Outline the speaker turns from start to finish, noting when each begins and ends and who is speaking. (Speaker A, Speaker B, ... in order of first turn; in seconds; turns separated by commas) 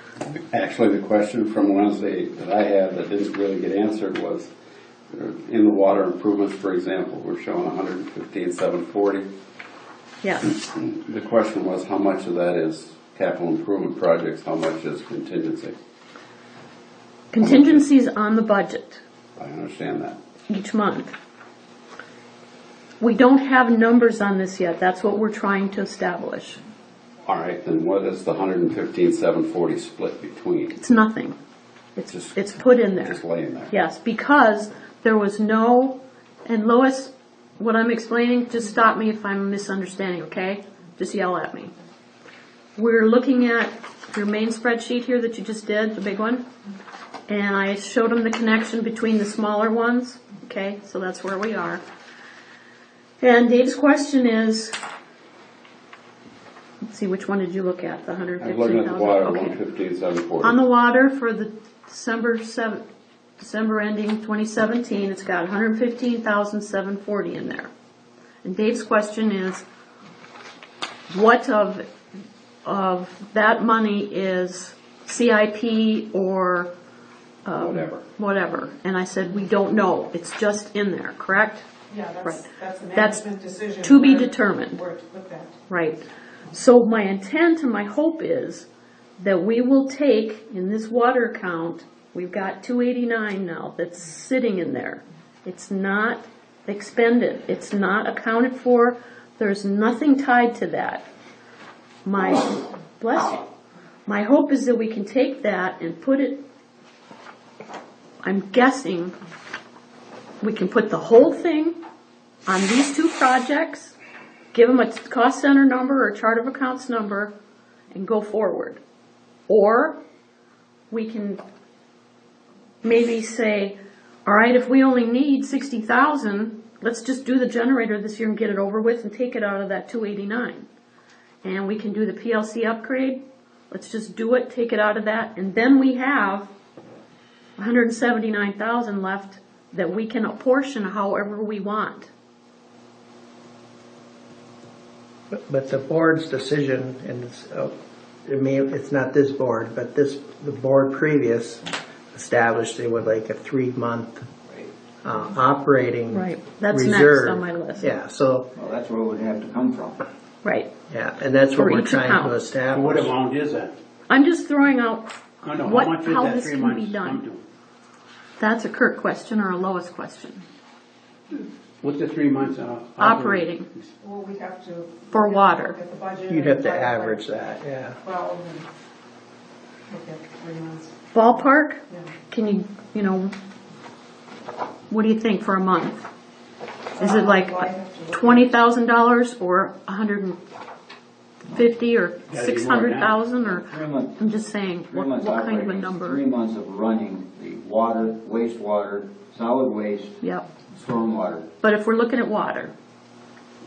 Speaker A: 0.3-4.5, Speaker A: 5.1-9.3, Speaker B: 10.2-10.5, Speaker A: 10.5-15.8, Speaker B: 17.3-19.0, Speaker A: 17.4-17.8, Speaker A: 19.4-20.2, Speaker B: 20.5-21.1, Speaker B: 23.0-26.6, Speaker A: 27.3-30.7, Speaker B: 30.7-31.4, Speaker B: 32.0-33.2, Speaker A: 32.1-32.4, Speaker A: 33.0-33.7, Speaker B: 33.7-41.7, Speaker B: 42.8-46.4, Speaker B: 47.3-51.8, Speaker B: 53.2-54.8, Speaker B: 56.9-59.6, Speaker A: 58.4-60.6, Speaker B: 60.4-62.8, Speaker B: 63.4-67.7, Speaker B: 68.4-69.6, Speaker B: 71.1-71.8, Speaker B: 72.7-76.7, Speaker B: 77.5-81.6, Speaker A: 77.6-78.0, Speaker C: 81.9-85.6, Speaker B: 82.2-83.3, Speaker B: 83.8-84.8, Speaker B: 85.7-88.7, Speaker B: 89.2-101.0, Speaker B: 102.0-103.5, Speaker B: 104.1-106.4, Speaker B: 108.2-109.2, Speaker B: 110.4-111.8, Speaker B: 112.5-114.0, Speaker B: 114.5-117.3, Speaker B: 117.9-118.8, Speaker B: 119.5-120.0, Speaker B: 120.9-121.4, Speaker B: 122.8-130.7, Speaker B: 131.4-136.5, Speaker B: 137.6-142.1, Speaker D: 145.3-147.7, Speaker D: 148.2-154.3, Speaker D: 155.0-158.5, Speaker B: 156.1-157.9, Speaker E: 158.6-160.0, Speaker B: 160.4-160.7, Speaker D: 160.9-163.1, Speaker B: 161.6-162.3, Speaker F: 162.7-163.7, Speaker B: 164.1-167.2, Speaker F: 165.4-167.4, Speaker B: 168.4-170.4, Speaker F: 171.8-173.9, Speaker B: 173.0-173.7, Speaker C: 174.0-177.2, Speaker B: 175.1-175.8, Speaker D: 176.3-178.0, Speaker C: 178.0-178.7, Speaker C: 179.9-181.1, Speaker B: 181.1-183.3, Speaker C: 181.9-182.1, Speaker B: 184.9-186.1, Speaker B: 187.0-190.4, Speaker C: 187.0-188.5, Speaker B: 191.5-196.2, Speaker F: 192.3-193.2, Speaker E: 193.4-194.3, Speaker E: 194.9-200.2, Speaker B: 200.2-200.5, Speaker E: 200.7-201.5, Speaker B: 201.6-202.7